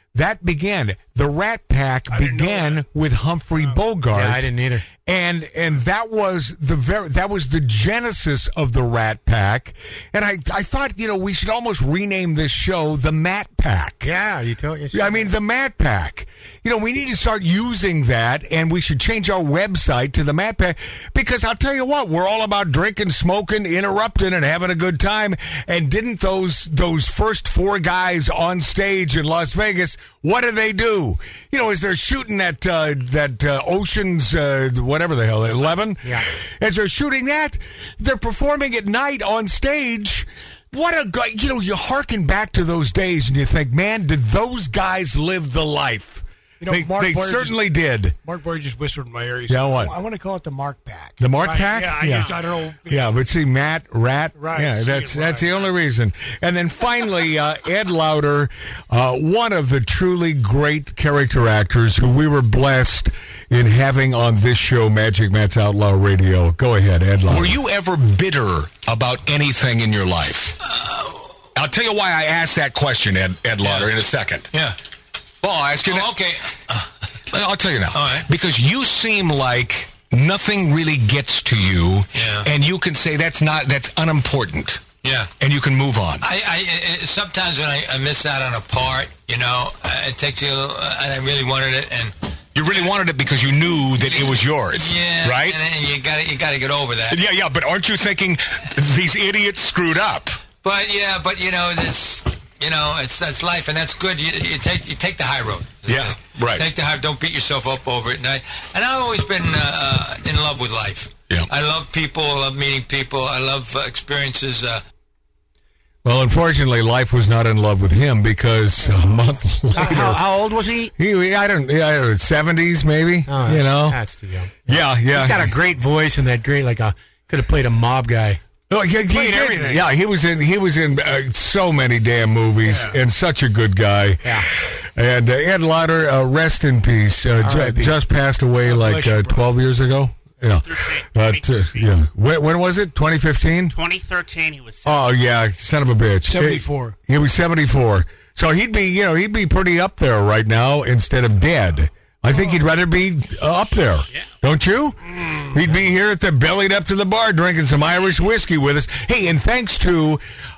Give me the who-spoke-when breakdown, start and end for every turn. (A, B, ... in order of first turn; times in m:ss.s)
0:00.1-0:04.5 A
0:02.1-0:02.8 B
0:04.1-0:04.9 C
0:05.0-0:14.1 A
0:14.0-0:15.3 C
0:14.9-0:48.2 A
0:46.6-0:47.6 B
0:48.2-0:53.2 B
0:49.5-0:50.0 A
0:51.2-1:07.6 A
0:54.3-0:55.6 B
1:07.3-1:10.6 D
1:11.5-1:14.5 D
1:13.6-1:13.9 E
1:14.5-1:14.8 E
1:15.4-1:16.2 D
1:15.8-1:16.9 E
1:17.3-1:24.8 D
1:17.9-1:18.3 E
1:22.1-1:22.5 E
1:25.0-1:25.3 E
1:25.4-1:26.2 D
1:26.2-1:32.9 E
1:32.5-1:35.6 D
1:34.0-1:37.2 E
1:37.1-1:40.4 D
1:40.6-1:54.8 E
1:45.8-1:46.6 D
1:56.0-2:00.2 A
1:59.8-2:00.9 C
2:01.0-2:04.0 A
2:03.3-2:08.4 C
2:04.7-2:05.5 A
2:08.7-2:23.8 A
2:09.1-2:09.8 B
2:12.6-2:13.0 B
2:17.4-2:17.9 C
2:18.6-2:19.4 B
2:20.6-2:21.8 F
2:23.7-2:25.1 F
2:24.8-2:40.2 A
2:26.3-2:27.0 B
2:32.3-2:32.6 B
2:35.1-2:35.6 B